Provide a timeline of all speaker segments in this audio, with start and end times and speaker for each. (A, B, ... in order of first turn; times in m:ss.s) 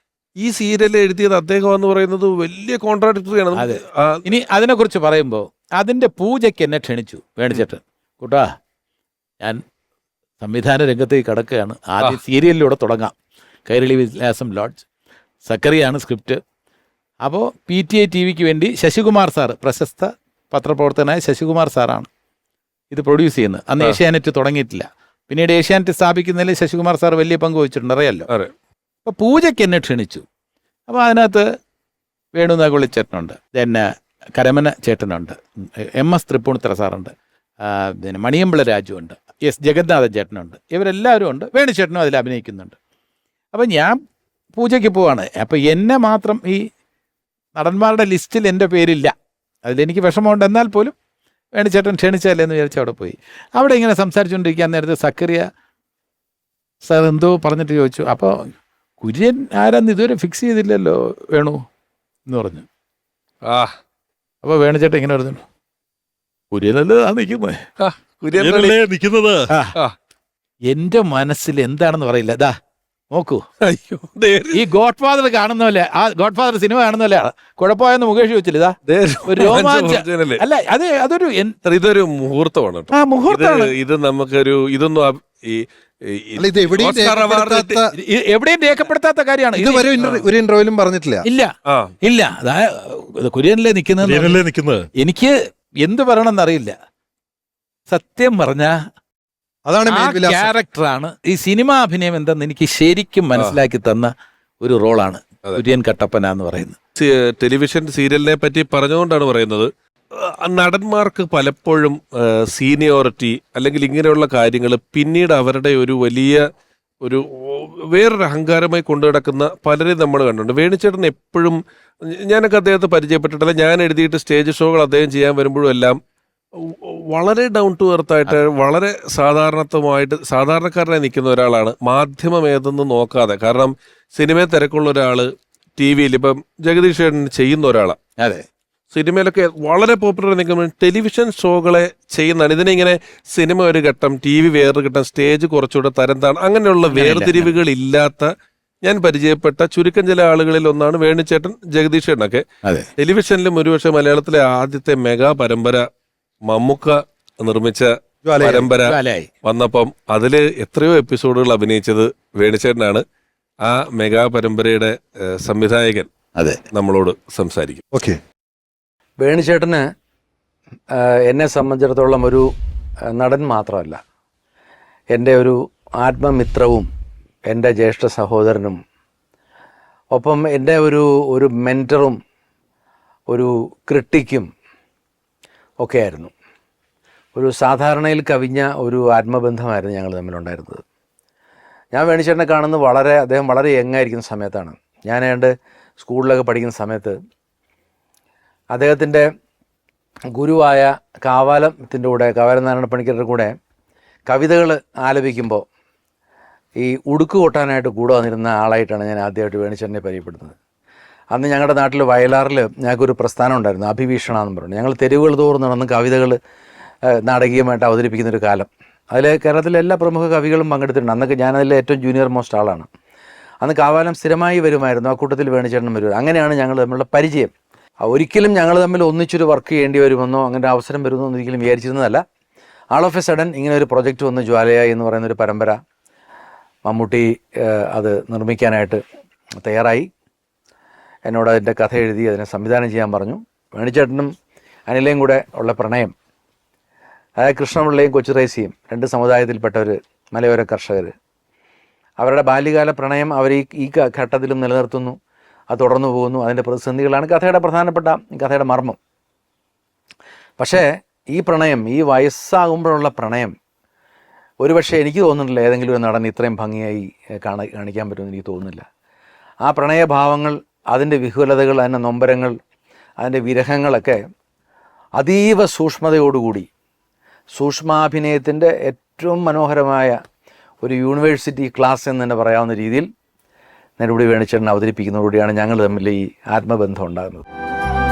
0:00.4-0:04.2 A
0:03.6-0:08.5 B
0:10.4-0:13.1 B
0:13.7-0:14.8 B
0:15.5-0:16.4 B
0:17.2-0:22.1 B
0:22.9-0:28.3 B
0:29.0-0:30.2 B
0:30.9-0:31.5 B
0:32.4-0:42.8 B
0:43.5-0:44.0 B
0:44.6-0:46.7 B
0:47.6-0:49.1 B
0:49.6-0:50.9 B
0:51.6-0:55.5 B
0:56.8-0:58.4 B
0:59.0-1:01.6 B
1:02.3-1:02.7 B
1:03.5-1:03.7 A
1:04.4-1:05.4 B
1:06.5-1:07.6 B
1:07.8-1:08.8 A
1:08.4-1:09.5 C
1:10.7-1:12.6 B
1:13.1-1:13.4 B
1:13.6-1:14.6 A
1:14.5-1:18.8 B
1:18.9-1:20.4 A
1:19.3-1:21.6 B
1:21.6-1:27.8 A
1:22.9-1:23.7 B
1:26.4-1:27.9 C
1:28.0-1:30.2 B
1:29.6-1:31.2 C
1:31.2-1:34.4 B
1:31.7-1:31.9 A
1:34.0-1:34.9 C
1:35.0-1:36.8 B
1:37.9-1:38.8 B
1:39.7-1:40.5 C
1:39.9-1:44.1 B
1:44.6-1:46.8 B
1:47.0-1:56.4 A
1:57.0-2:06.0 A
2:06.6-2:18.0 A
2:18.2-2:18.5 B
2:18.9-2:28.3 A
2:26.9-2:27.5 B
2:28.8-2:32.5 A
2:33.0-2:35.8 A
2:36.5-2:43.0 A
2:38.2-2:38.7 C
2:38.9-2:39.3 B
2:43.6-2:46.1 A
2:46.7-2:47.8 A
2:47.9-2:48.2 C
2:49.2-2:49.8 D
2:50.9-2:52.4 D
2:53.1-2:54.0 D
2:55.1-2:56.9 D
2:57.5-2:58.8 D
3:00.1-3:02.2 D
3:03.3-3:04.5 D
3:05.8-3:06.3 D
3:07.4-3:10.8 D
3:11.9-3:17.2 D
3:18.7-3:19.3 D
3:20.3-3:23.5 D
3:24.3-3:25.6 D
3:26.8-3:30.5 D
3:31.3-3:36.4 D
3:37.2-3:42.9 D
3:43.6-3:47.5 D
3:48.0-3:52.2 D
3:52.9-3:55.8 D
3:56.8-3:59.0 D
3:59.6-4:00.1 D
4:01.3-4:04.3 D
4:04.9-4:06.1 D
4:07.4-4:11.1 D
4:12.2-4:15.2 D
4:15.7-4:19.0 D
4:20.6-4:23.5 D
4:24.6-4:28.8 D
4:29.6-4:32.6 D
4:33.2-4:34.2 D
4:35.2-4:36.7 D
4:37.6-4:40.2 D
4:40.8-4:43.1 D
4:44.0-4:47.4 D